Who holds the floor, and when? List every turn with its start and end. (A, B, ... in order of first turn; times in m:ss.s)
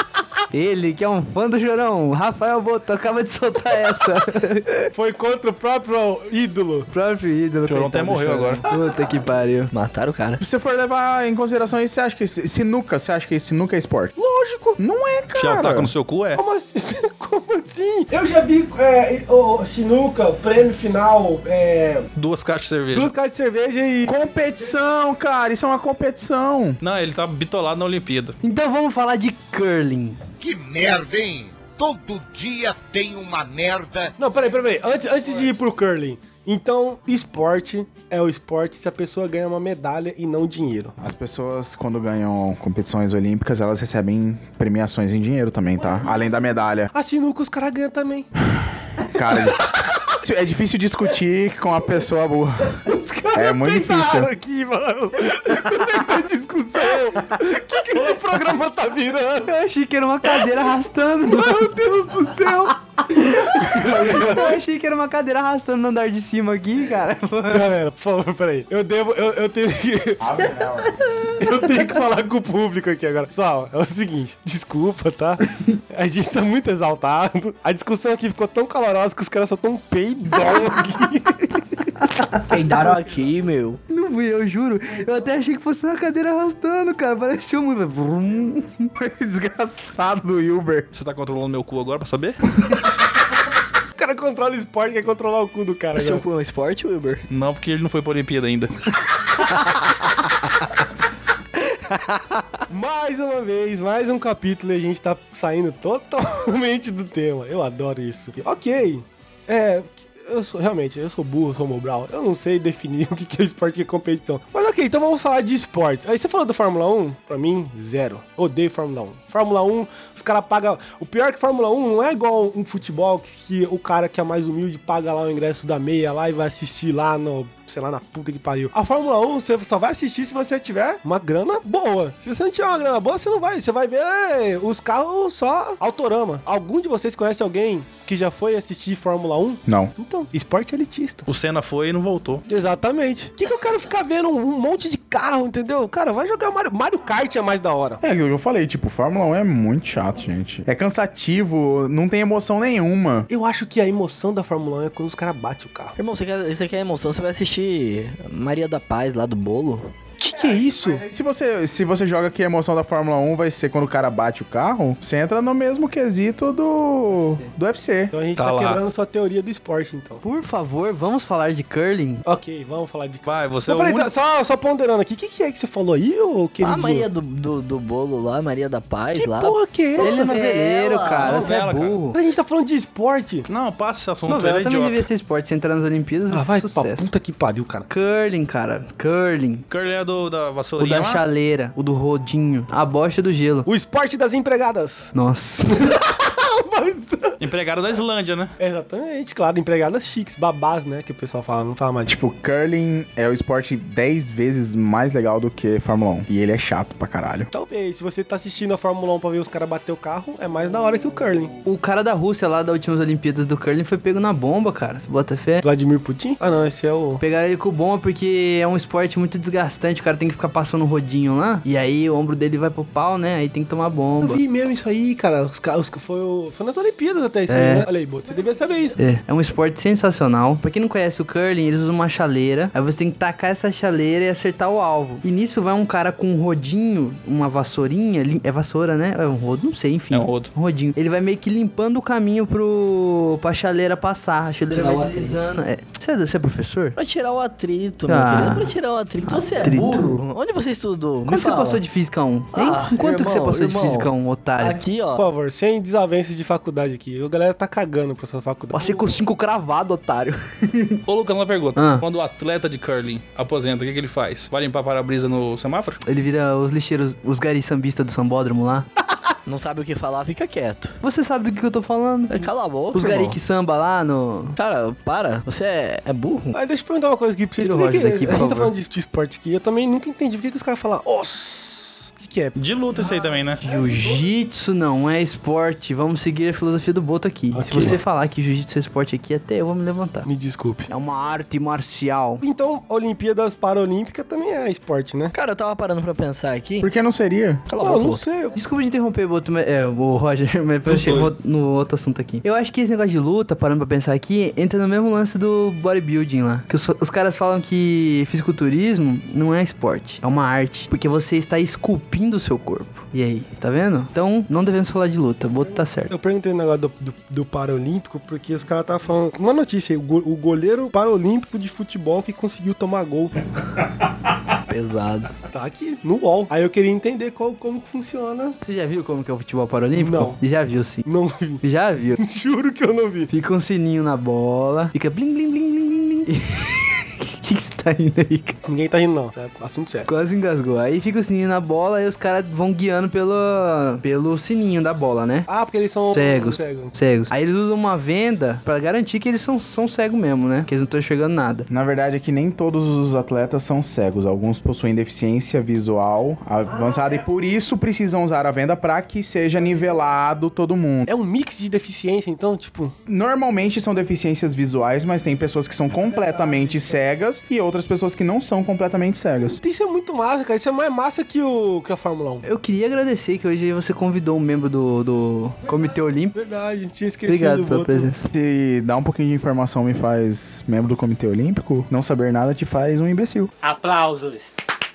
0:00.5-0:04.9 A
0:04.9-0:06.9 B
0:06.9-0:09.7 A
0:07.7-0:08.6 C
0:09.7-0:10.4 D
0:10.4-0:14.1 E
0:14.2-0:14.8 B
0:14.8-0:15.9 E
0:15.4-0:16.4 C
0:16.3-0:22.1 B
0:22.2-0:23.1 C
0:22.9-0:24.2 B
0:24.1-0:26.8 E
0:26.8-0:28.4 C
0:28.4-0:30.2 A
0:30.4-0:34.1 F
0:34.2-0:41.0 B
0:41.0-0:46.9 E
0:46.9-0:48.3 B
0:48.5-0:54.3 E
0:52.9-0:59.5 B
0:59.4-1:01.8 A
1:01.3-1:04.6 B
1:03.1-1:07.7 A
1:07.5-1:10.3 B
1:10.2-1:11.1 E
1:10.9-1:11.4 A
1:11.4-1:21.9 B
1:22.2-1:22.5 A
1:22.5-1:23.8 D
1:23.9-1:28.9 A
1:29.0-1:30.9 E
1:30.9-1:32.4 C
1:34.0-1:36.2 B
1:35.9-1:37.2 D
1:37.3-1:38.7 C
1:41.6-1:42.5 D
1:42.7-2:21.3 B
2:19.7-2:19.9 E
2:21.3-2:22.4 C
2:22.5-2:28.0 B
2:28.0-2:33.3 E
2:33.3-2:36.0 B
2:36.0-2:39.9 D
2:40.2-2:41.0 B
2:40.9-2:48.1 E
2:48.1-2:50.2 B
2:48.4-2:48.8 C
2:50.2-2:52.2 A
2:52.2-2:57.1 B
2:53.2-2:54.1 C
2:56.6-3:01.4 D
2:59.2-3:00.3 B
3:00.0-3:02.2 A
3:01.2-3:01.5 B
3:01.2-3:02.0 C
3:02.1-3:03.5 B
3:03.5-3:05.1 C
3:04.3-3:07.1 A
3:06.3-3:07.9 B
3:07.9-3:09.7 A
3:09.7-3:11.2 C
3:10.8-3:13.7 A
3:13.7-3:15.1 B
3:15.1-3:15.9 A
3:15.7-3:17.4 B
3:17.4-3:18.5 C
3:18.6-3:22.2 B
3:22.1-3:27.5 E
3:27.5-3:31.6 B
3:31.6-3:35.6 A
3:35.6-3:37.2 B
3:37.2-3:44.4 A
3:44.2-3:49.0 B
3:47.5-3:47.9 A
3:49.0-4:07.0 A
4:00.1-4:00.5 C
4:04.7-4:05.4 D
4:07.0-4:11.8 D
4:08.1-4:08.7 A
4:09.3-4:10.2 A
4:11.2-4:14.8 A
4:12.5-4:15.2 D
4:15.2-4:19.1 B
4:18.7-4:21.0 A
4:21.1-4:26.0 C
4:21.8-4:22.0 A
4:26.0-4:28.9 A
4:29.5-4:31.0 D
4:31.0-4:34.6 A
4:32.3-4:33.4 D
4:34.6-4:36.6 D
4:36.5-4:42.6 B
4:37.6-4:38.7 A
4:42.6-4:43.6 C
4:43.6-4:50.3 A
4:47.5-4:48.0 B
4:50.2-4:50.9 B
4:50.9-4:52.4 A
4:52.4-4:55.3 B
4:55.3-4:56.9 D
4:56.8-4:57.7 E
4:57.7-4:58.2 D
4:57.8-4:58.6 B
4:58.6-5:16.1 A
5:00.9-5:01.3 C
5:16.1-5:23.4 B
5:24.7-5:25.3 D
5:25.5-5:28.6 B
5:28.6-5:31.1 A
5:29.9-5:30.4 B
5:31.0-5:31.6 B
5:31.6-5:32.2 A
5:32.2-5:33.3 B
5:33.3-5:38.6 A
5:38.7-5:40.1 B
5:40.1-5:45.5 A
5:45.5-5:46.9 B
5:46.1-5:51.7 A
5:51.7-6:01.1 E
6:01.1-6:03.0 B
6:03.1-6:09.6 E
6:09.5-6:12.5 B
6:12.4-6:16.4 A
6:16.3-6:18.1 B
6:17.3-6:18.3 A
6:18.3-6:23.5 E
6:23.7-6:24.4 F